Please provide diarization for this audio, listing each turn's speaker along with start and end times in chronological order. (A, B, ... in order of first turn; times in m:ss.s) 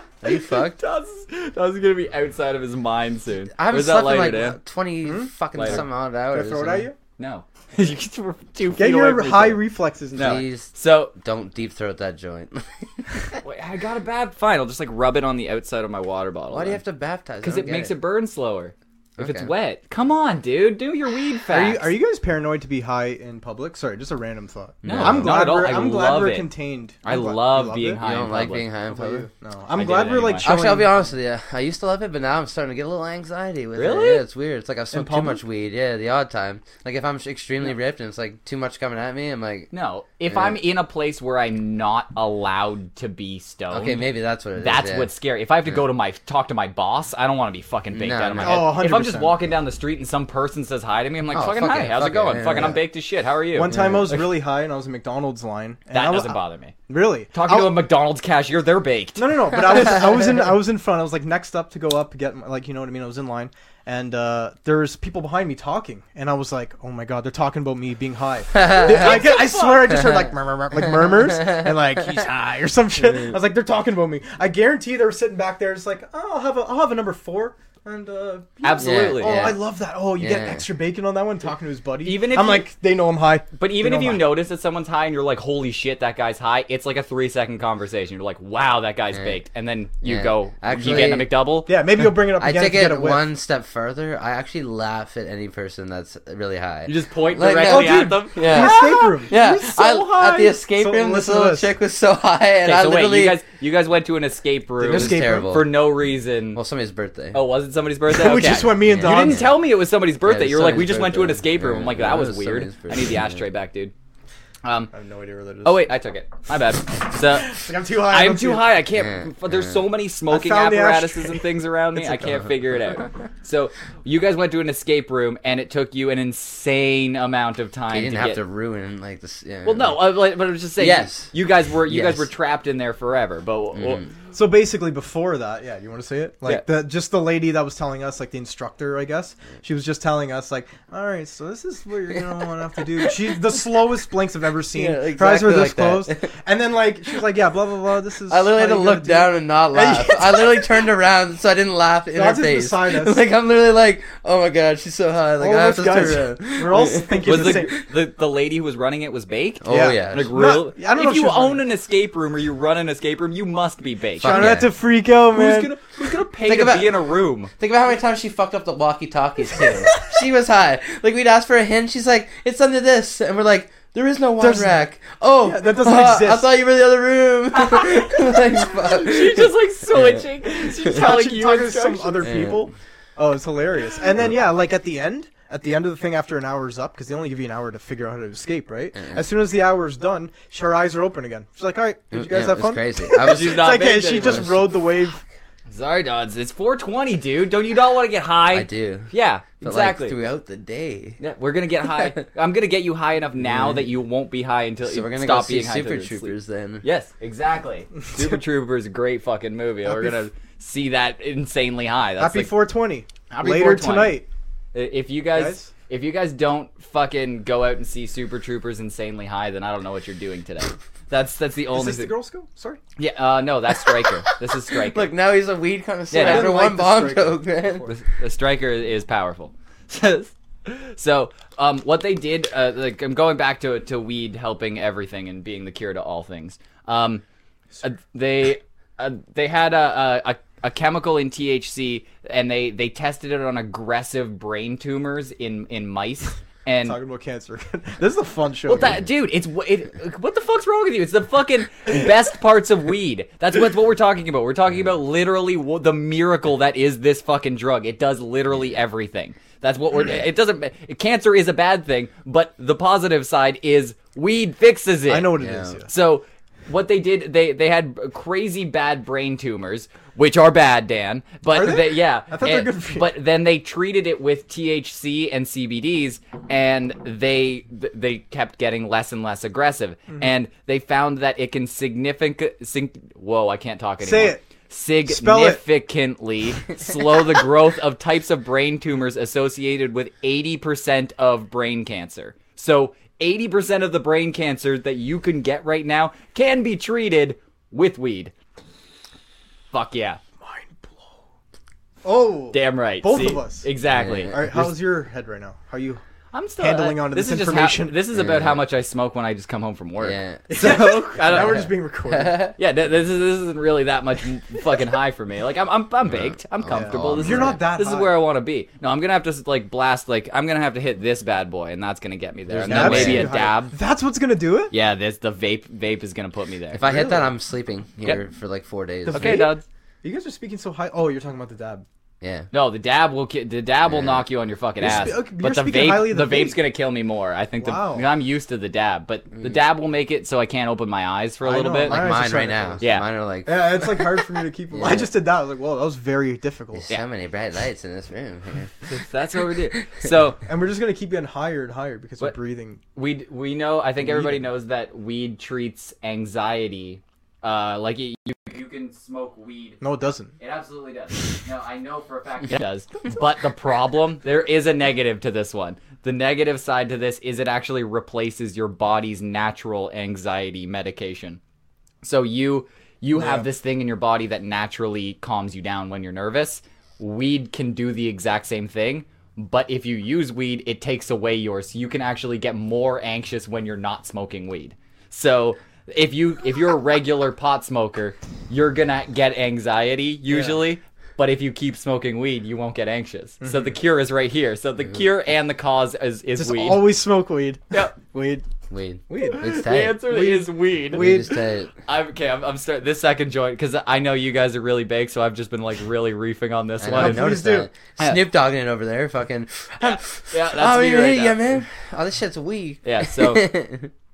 0:00.2-0:00.8 A
0:00.3-0:04.6 B
0:03.6-0:06.9 A
0:05.0-0:07.0 C
0:05.5-0:05.8 B
0:07.2-0:09.6 B
0:08.8-0:10.4 C
0:10.1-0:11.1 B
0:10.2-0:13.3 A
0:13.4-0:16.8 B
0:16.5-0:17.9 A
0:17.4-0:21.9 B
0:19.2-0:19.5 A
0:21.5-0:28.0 C
0:24.8-0:25.4 A
0:24.8-0:26.5 B
0:27.0-0:28.6 B
0:28.0-0:29.3 A
0:28.9-0:31.0 C
0:29.7-0:30.5 B
0:30.4-0:39.7 A
0:33.7-0:34.2 B
0:34.9-0:35.4 C
0:39.7-0:44.0 B
0:40.3-0:40.6 A
0:43.7-0:45.1 A
0:44.6-0:53.8 B
0:47.9-0:48.7 A
0:48.4-0:49.4 C
0:51.3-0:52.8 A
0:53.5-0:57.8 C
0:53.7-0:54.2 A
0:55.9-0:56.7 B
0:57.3-1:00.0 B
0:59.2-1:24.3 C
1:08.5-1:09.2 A
1:08.7-1:10.0 B
1:10.0-1:10.2 A
1:11.4-1:11.7 A
1:18.6-1:19.6 B
1:18.8-1:19.6 A
1:20.2-1:20.6 A
1:22.0-1:22.7 B
1:23.6-1:31.7 B
1:29.1-1:29.4 A
1:30.0-1:31.3 A
1:30.8-1:33.2 C
1:32.2-1:43.4 A
1:36.8-1:40.5 B
1:37.6-1:41.7 C
1:42.6-1:46.6 B
1:44.8-1:45.6 C
1:44.8-1:45.8 A
1:46.5-1:47.4 A
1:47.3-1:53.9 B
1:48.1-1:49.5 C
1:48.8-1:49.5 A
1:50.2-1:53.4 A
1:54.6-1:54.9 B
1:54.9-1:55.9 C
1:55.6-2:08.4 B
1:57.3-1:58.7 C
1:58.9-1:59.8 A
2:00.3-2:01.5 C
2:02.2-2:02.5 A
2:07.9-2:10.0 A
2:09.6-2:14.1 B
2:10.8-2:11.3 A
2:11.8-2:12.3 A
2:13.7-2:14.1 A
2:14.3-2:30.7 C
2:24.7-2:26.3 A
2:28.3-2:37.8 A
2:32.1-2:33.2 C
2:35.4-2:37.8 C
2:37.2-2:44.6 B
2:39.6-2:40.3 A
2:39.7-2:41.6 C
2:44.2-2:44.7 A
2:44.2-2:45.8 C
2:45.3-2:47.5 B
2:46.4-2:47.0 A
2:47.5-3:00.2 A
2:54.4-2:54.8 C
2:55.4-2:56.5 C
2:57.5-3:02.3 B
3:00.7-3:15.2 C
3:02.2-3:02.7 A
3:12.1-3:14.7 A
3:13.2-3:14.6 B
3:15.7-3:20.2 B
3:18.5-3:21.2 A
3:21.2-3:32.5 B
3:23.4-3:23.8 A
3:24.8-3:26.8 A
3:29.8-3:30.2 C
3:32.2-3:34.2 C
3:33.3-3:34.2 B
3:34.7-3:42.1 B
3:35.3-3:35.7 C
3:41.7-3:42.8 C
3:43.0-3:45.1 B
3:44.8-3:47.9 A
3:46.1-3:46.6 B
3:46.1-3:47.9 C
3:47.8-3:57.2 B
3:57.8-4:07.0 B
4:06.8-4:09.0 C
4:08.7-4:25.3 B
4:25.1-4:25.9 C
4:25.4-4:25.8 A
4:25.9-4:58.3 B
4:31.5-4:33.1 C
4:44.0-4:44.4 C
4:45.0-4:45.6 C
4:59.7-5:00.2 B
5:00.4-5:01.1 C
5:02.0-5:03.7 C
5:02.5-5:04.7 B
5:03.9-5:04.7 A
5:04.3-5:06.0 C
5:06.3-5:11.7 B
5:06.6-5:08.0 C
5:08.1-5:08.6 A
5:10.0-5:12.5 A
5:10.5-5:12.5 C
5:12.6-5:23.7 B
5:16.0-5:17.6 A
5:16.7-5:18.1 C
5:22.5-5:23.4 A
5:22.7-5:24.7 C
5:24.7-5:26.8 B
5:26.7-5:29.5 A
5:26.8-5:27.3 C
5:29.0-5:31.8 C
5:29.1-5:29.6 B
5:32.2-5:32.5 A
5:32.5-5:42.0 B
5:33.8-5:34.2 A
5:34.8-5:36.6 C
5:37.6-5:38.1 C
5:41.4-5:42.8 C
5:41.9-5:44.2 A
5:42.8-5:43.0 B
5:43.4-5:46.8 C
5:44.7-5:45.1 A
5:46.7-5:48.7 A
5:48.9-5:50.4 B
5:50.4-5:52.8 C
5:52.9-5:59.8 B
5:54.0-5:54.4 C
5:59.8-6:00.3 C
6:00.4-6:11.4 B
6:12.0-6:36.8 B
6:13.1-6:13.5 C
6:30.3-6:30.6 C
6:33.4-6:33.8 C
6:36.4-6:38.4 C
6:38.7-6:40.0 A
6:39.1-6:41.4 C
6:39.2-6:47.3 B
6:40.9-6:41.7 A
6:46.8-6:53.9 A
6:46.9-6:47.7 C
6:49.8-6:51.6 B
6:52.8-6:53.5 B